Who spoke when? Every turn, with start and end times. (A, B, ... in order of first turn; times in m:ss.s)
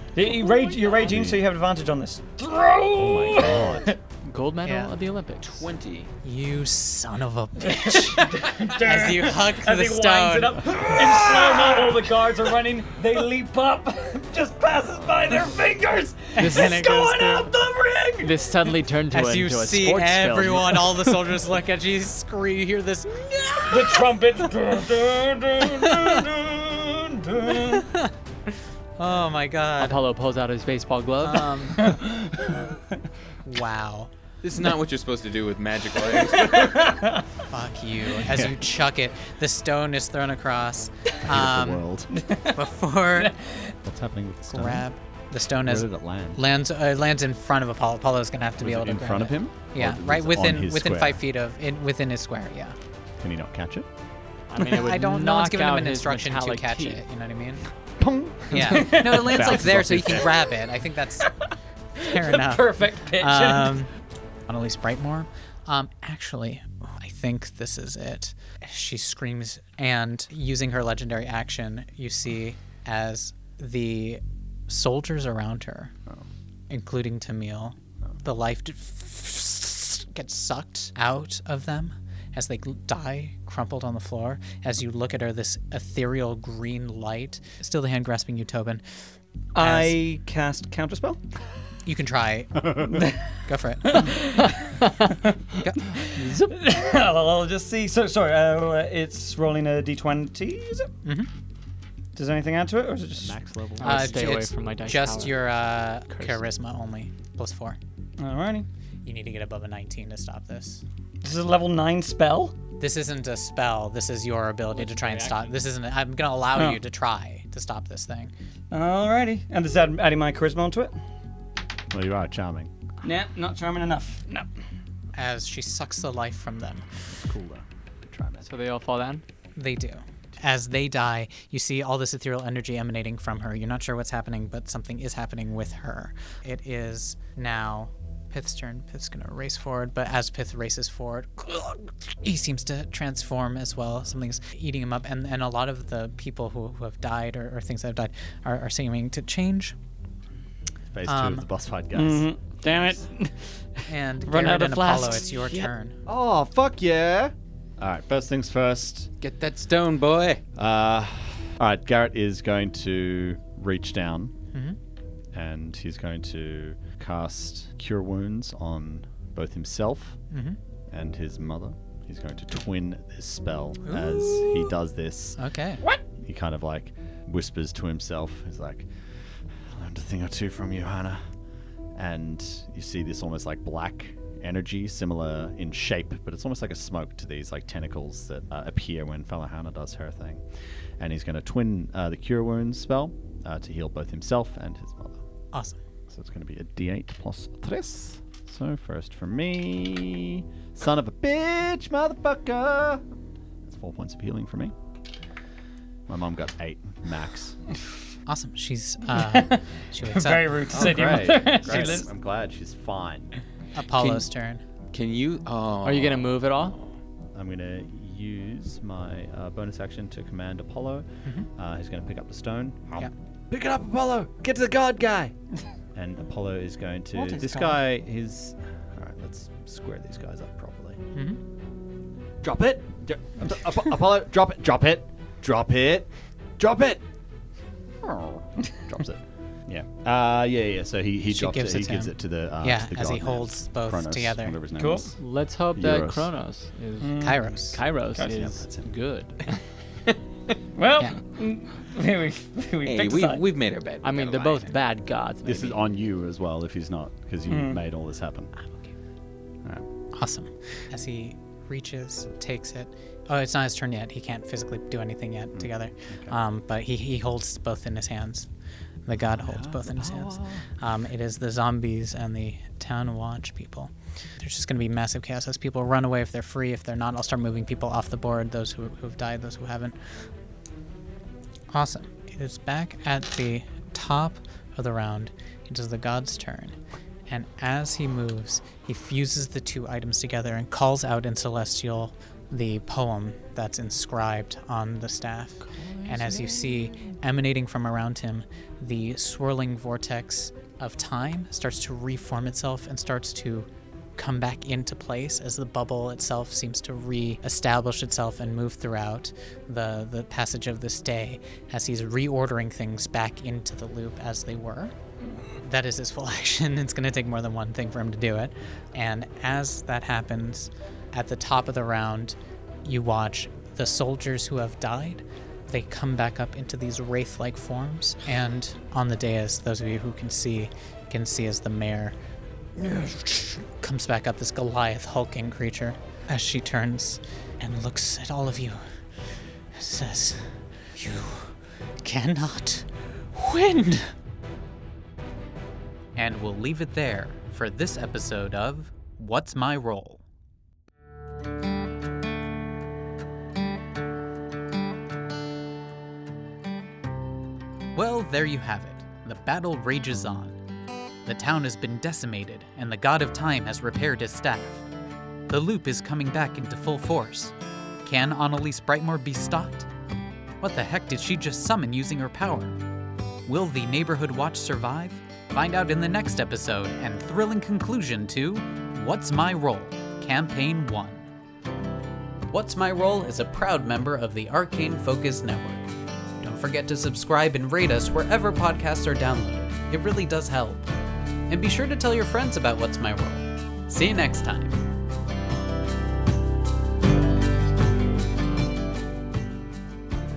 0:00.2-0:04.0 A
0:01.0-0:01.4 B
0:03.0-0:03.9 B
0:04.2-0:05.7 C
0:04.6-0:04.9 D
0:05.4-0:06.1 E
0:06.2-0:10.9 D
0:07.6-0:18.4 A
0:16.4-0:17.5 D
0:16.4-0:16.8 C
0:18.2-0:21.3 C
0:19.1-0:24.1 D
0:23.7-0:27.9 A
0:25.8-0:26.0 D
0:27.6-0:28.1 D
0:29.0-0:30.0 D
0:29.8-0:31.9 C
0:31.2-0:32.0 D
0:31.8-0:33.0 A
0:33.4-0:34.1 D
0:34.4-0:36.9 E
0:36.1-0:37.3 A
0:37.5-0:41.8 D
0:38.2-0:38.6 B
0:41.2-0:42.1 B
0:42.1-0:43.7 A
0:42.5-0:43.4 D
0:43.8-0:44.9 B
0:44.5-0:52.8 D
0:45.6-0:46.4 B
0:48.6-0:51.2 B
0:53.2-0:53.9 B
0:54.5-0:57.0 C
0:54.6-0:57.6 D
0:58.0-1:00.3 B
0:58.5-1:01.3 D
0:58.6-0:59.5 A
1:01.3-1:03.8 A
1:02.0-1:03.9 D
1:04.5-1:15.9 D
1:16.7-1:28.8 D
1:29.6-1:31.2 A
1:29.6-1:30.0 D
1:31.8-1:34.2 D
1:32.6-1:33.0 B
1:32.9-1:35.4 A
1:34.8-1:35.1 C
1:35.6-1:35.9 D
1:35.9-1:40.9 A
1:36.1-1:36.6 C
1:42.2-1:43.4 A
1:43.2-1:44.3 B
1:43.8-1:45.5 C
1:43.8-1:47.8 D
1:46.1-1:46.4 C
1:48.2-1:48.7 A
1:49.0-1:50.8 D
1:51.2-1:52.6 A
1:52.8-1:58.3 D
1:54.8-1:55.6 C
1:56.6-1:56.8 A
1:58.7-2:01.0 A
2:01.9-2:02.7 B
2:03.0-2:04.5 A
2:05.2-2:06.9 D
2:07.1-2:08.5 B
2:08.4-2:09.2 C
2:09.6-2:29.8 D
2:30.9-2:32.3 B
2:31.1-2:31.5 D
2:31.9-2:35.6 A
2:32.7-2:33.0 D
2:33.9-2:36.0 D
2:36.1-2:39.1 B
2:39.2-2:40.4 E
2:40.6-2:44.3 B
2:44.5-2:44.8 D
2:45.3-2:50.2 B
2:50.3-2:50.6 D
2:50.9-2:55.4 B
2:53.8-2:54.6 D
2:55.4-2:55.8 D
2:56.2-3:01.2 B
3:02.0-3:10.4 B
3:11.0-3:15.2 B
3:15.5-3:15.8 D
3:16.1-3:23.0 B
3:23.6-3:24.8 B
3:26.1-3:27.6 B
3:28.3-3:30.8 D
3:29.1-3:32.1 A
3:30.7-3:33.4 B
3:33.8-3:34.6 D
3:34.9-3:36.4 E
3:35.8-3:36.8 C
3:37.3-3:45.4 B
3:46.0-3:51.0 B
3:47.3-3:47.6 A
3:51.1-3:51.4 D
3:52.4-3:57.0 B
3:58.0-4:05.1 B
4:01.3-4:04.6 D
4:04.8-4:05.1 A
4:05.2-4:09.6 C
4:05.8-4:06.3 B
4:07.0-4:07.4 A
4:07.2-4:07.8 D
4:08.1-4:08.4 A
4:08.2-4:08.9 B
4:10.8-4:13.4 A
4:12.8-4:14.7 E
4:14.0-4:15.8 C
4:15.4-4:18.5 B
4:17.5-4:17.8 A
4:20.1-4:28.5 D
4:25.6-4:26.4 B
4:29.1-4:40.1 D
4:29.3-4:30.7 B
4:41.7-4:46.8 D
4:47.3-5:14.9 D
4:55.9-4:56.9 C
5:15.6-5:32.2 D
5:32.8-5:38.8 D
5:39.7-5:44.1 D
5:46.2-5:50.2 D
5:58.0-6:00.6 D
6:01.2-6:04.9 D
6:05.5-6:09.9 D
6:10.6-6:12.8 D
6:13.5-6:21.3 D
6:22.5-6:30.9 D
6:31.5-6:34.8 D